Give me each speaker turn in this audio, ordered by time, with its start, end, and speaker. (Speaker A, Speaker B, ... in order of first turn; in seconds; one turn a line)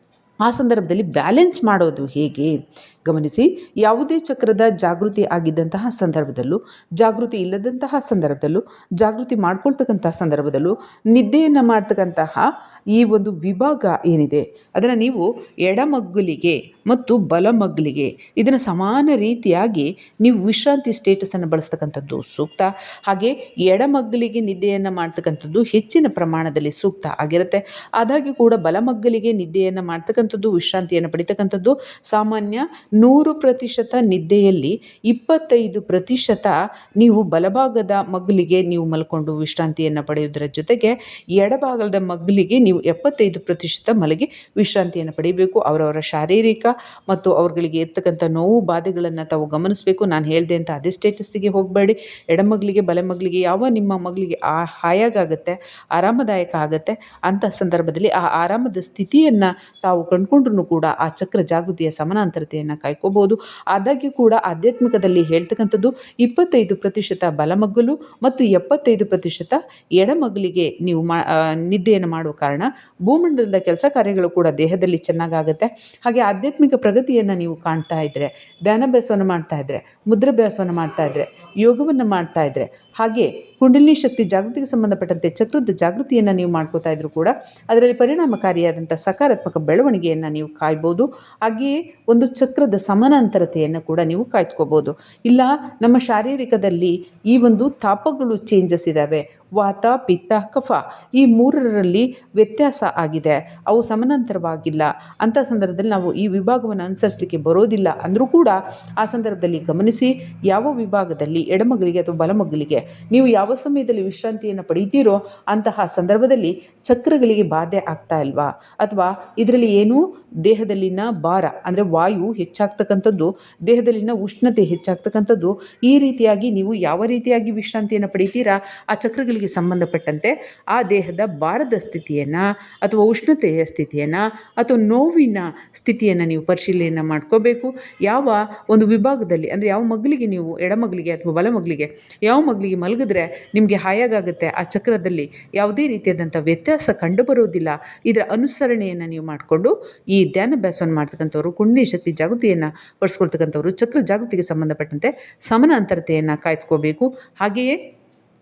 Speaker A: 0.4-157.8